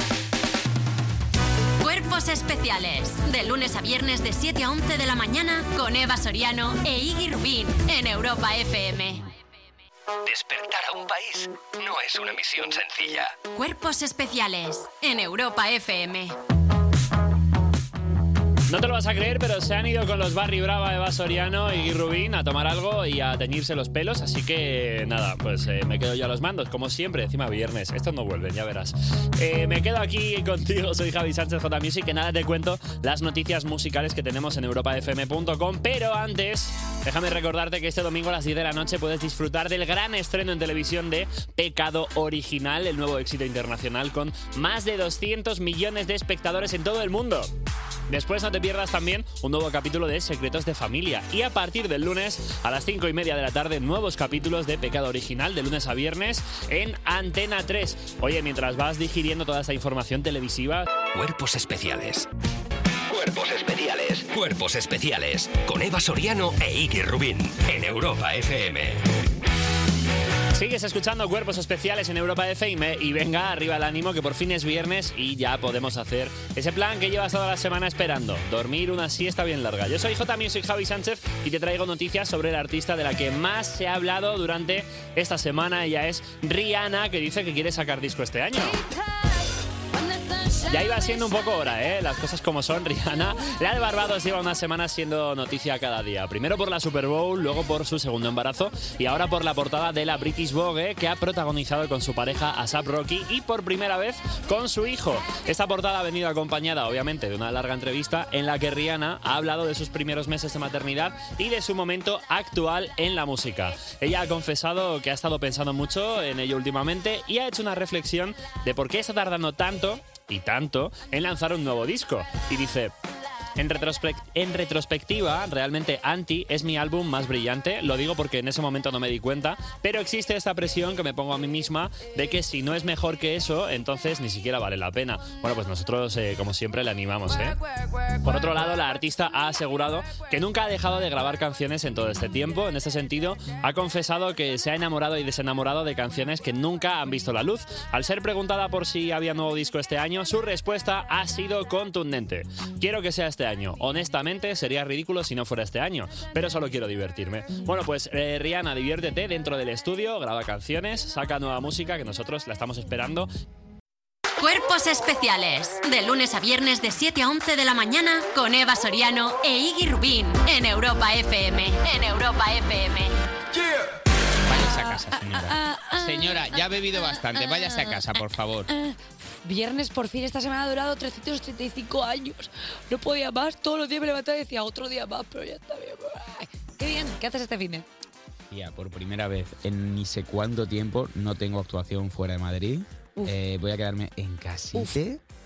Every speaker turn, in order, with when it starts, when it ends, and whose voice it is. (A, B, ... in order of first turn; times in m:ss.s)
0:01.8-0:09.3 A
0:10.2-0:13.4 B
0:13.5-0:16.4 A
0:18.7-0:47.5 C
0:48.1-1:00.9 C
1:01.1-1:02.3 B
1:03.1-1:09.1 B
1:10.5-1:28.8 C
1:30.0-1:31.2 D
1:30.7-2:02.9 C
2:03.6-2:17.6 C
2:18.2-2:43.3 C
2:44.4-2:53.1 A
2:54.4-2:58.7 E
2:54.5-3:07.8 D
3:08.5-3:15.2 E